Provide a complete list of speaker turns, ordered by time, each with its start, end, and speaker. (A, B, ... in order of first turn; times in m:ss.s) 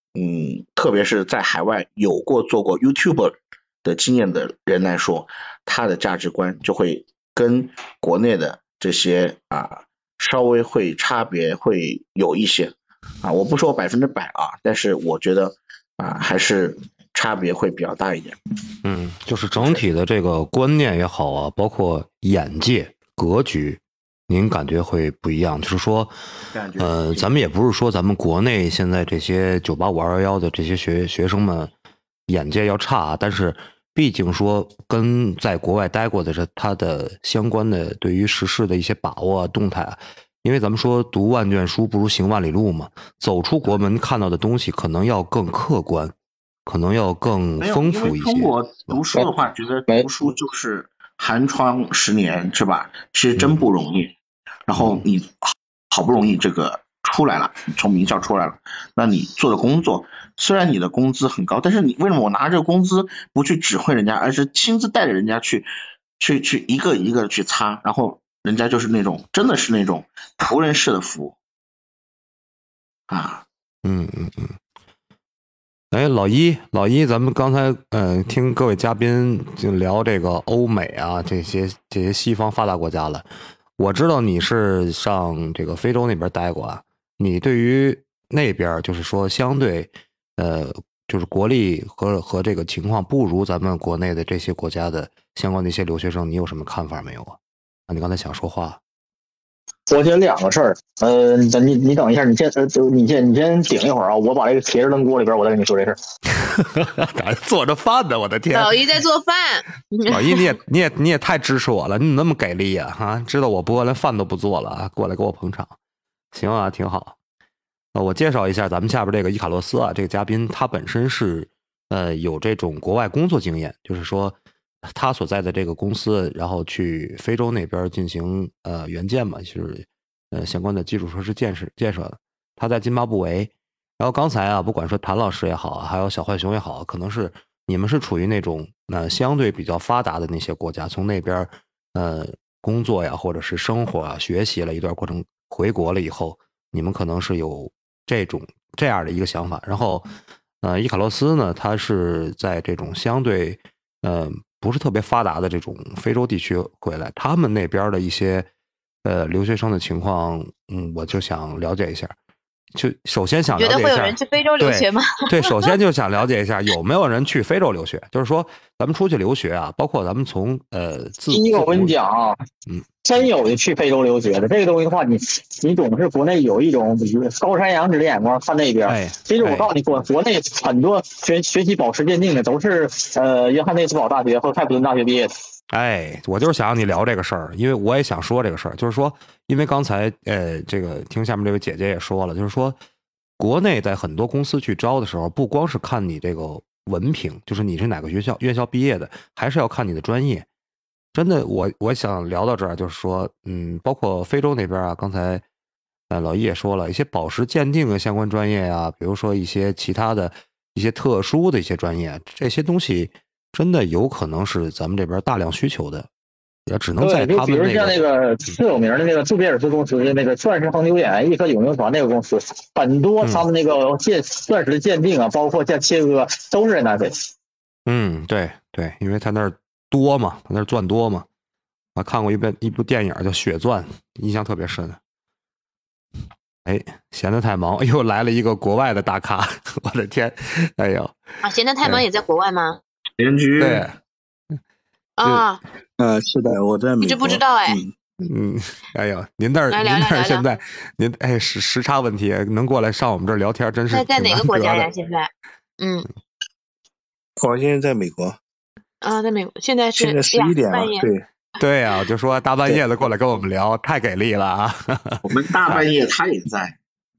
0:00.1-0:18.4 A
0:18.8-0:26.1 B
0:19.6-0:19.8 A
0:26.5-0:27.2 A
0:26.8-0:31.7 B
0:32.3-0:46.1 B
0:46.7-0:48.9 B
0:47.6-0:54.1 A
0:54.7-1:05.7 A
0:54.8-0:55.0 B
1:06.2-1:11.4 A
1:13.1-1:13.4 A
1:13.8-1:14.6 B
1:15.9-1:23.2 B
1:23.8-1:37.4 B
1:37.9-1:38.8 B
1:39.9-1:46.0 C
1:46.7-1:48.8 B
1:48.5-1:50.4 D
1:50.1-1:55.7 B
1:56.3-1:57.2 B
1:57.9-2:30.1 B
2:30.6-2:38.5 B
2:39.0-2:42.1 B
2:42.7-2:52.0 B
2:43.6-2:45.7 D
2:51.3-2:52.4 C
2:52.7-2:53.3 B
2:53.0-3:05.3 C
2:58.8-2:59.7 B
3:05.7-3:12.8 B
3:13.4-3:20.5 B
3:21.1-3:25.4 B
3:26.1-3:36.1 B
3:36.7-3:38.0 B
3:37.0-3:47.2 C
3:47.8-3:51.2 B
3:52.0-3:55.0 B
3:56.6-4:01.2 B
4:01.4-4:02.8 D
4:03.2-4:03.9 A
4:03.6-4:03.9 B
4:05.2-4:05.6 D
4:06.0-4:07.9 E
4:07.0-4:07.8 D
4:08.2-4:14.9 B
4:09.7-4:10.5 D
4:13.9-4:16.1 D
4:17.4-4:18.4 E
4:19.0-4:21.1 D
4:20.0-4:21.2 E
4:21.6-4:25.8 B
4:25.2-4:26.8 A